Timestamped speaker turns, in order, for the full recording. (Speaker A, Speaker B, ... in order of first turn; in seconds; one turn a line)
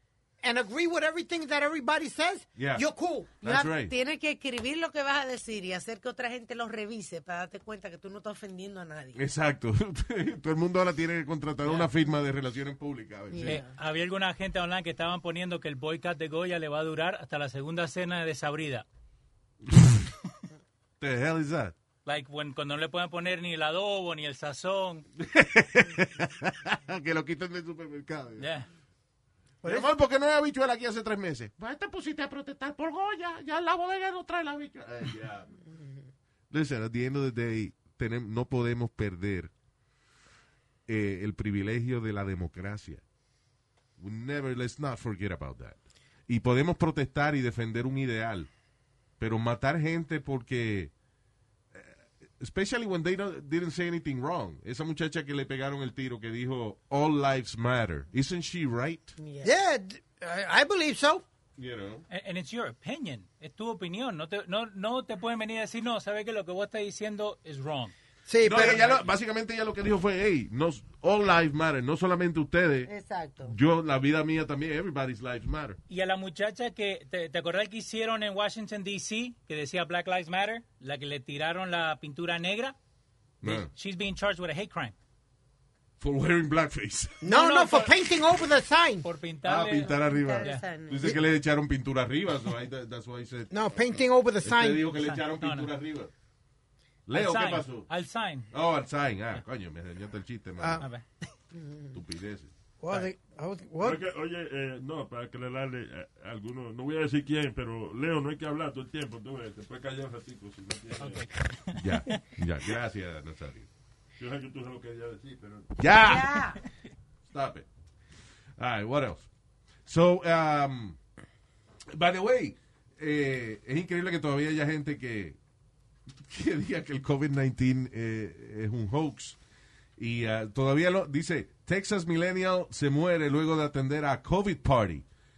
Speaker A: 0.4-3.6
Speaker B: 2.6-2.9
Speaker B: 3.4-3.9
Speaker C: 3.5-9.2
Speaker B: 9.1-13.6
Speaker D: 11.6-11.9
Speaker C: 13.3-13.7
Speaker D: 13.4-18.9
Speaker B: 19.6-20.1
Speaker B: 21.0-21.7
Speaker D: 22.0-25.1
Speaker B: 25.2-28.5
Speaker D: 28.4-28.7
Speaker A: 29.6-29.9
Speaker B: 29.6-35.5
Speaker B: 36.5-39.5
Speaker B: 40.9-43.0
Speaker B: 44.0-48.5
Speaker B: 49.2-50.9
Speaker B: 51.7-59.1
Speaker C: 59.2-59.5
Speaker A: 59.4-61.2
Speaker B: 61.6-62.0
Speaker D: 62.1-67.9
Speaker A: 68.2-69.0
Speaker B: 68.4-72.9
Speaker C: 72.8-73.5
Speaker B: 73.4-75.8
Speaker D: 75.9-82.8
Speaker B: 83.4-83.7
Speaker D: 83.4-84.9
Speaker B: 86.0-87.2
Speaker A: 87.2-89.0
Speaker D: 87.2-87.9
Speaker D: 89.0-90.6
Speaker B: 89.4-93.5
Speaker C: 89.8-91.2
Speaker A: 93.5-94.9
Speaker B: 94.4-96.1
Speaker D: 94.9-95.7
Speaker B: 97.1-97.9
Speaker D: 97.1-98.5
Speaker B: 98.5-100.8
Speaker A: 100.6-100.9
Speaker D: 100.8-101.0
Speaker C: 101.5-102.0
Speaker B: 101.9-102.5
Speaker A: 102.8-104.0
Speaker E: 103.8-111.3
Speaker D: 111.0-112.2
Speaker B: 111.8-113.7
Speaker E: 114.2-115.7
Speaker B: 115.8-116.4
Speaker C: 115.9-116.6
Speaker B: 117.3-117.7
Speaker B: 118.6-119.3
Speaker B: 119.8-121.0
Speaker B: 121.9-125.4
Speaker B: 126.2-129.4
Speaker B: 130.0-135.0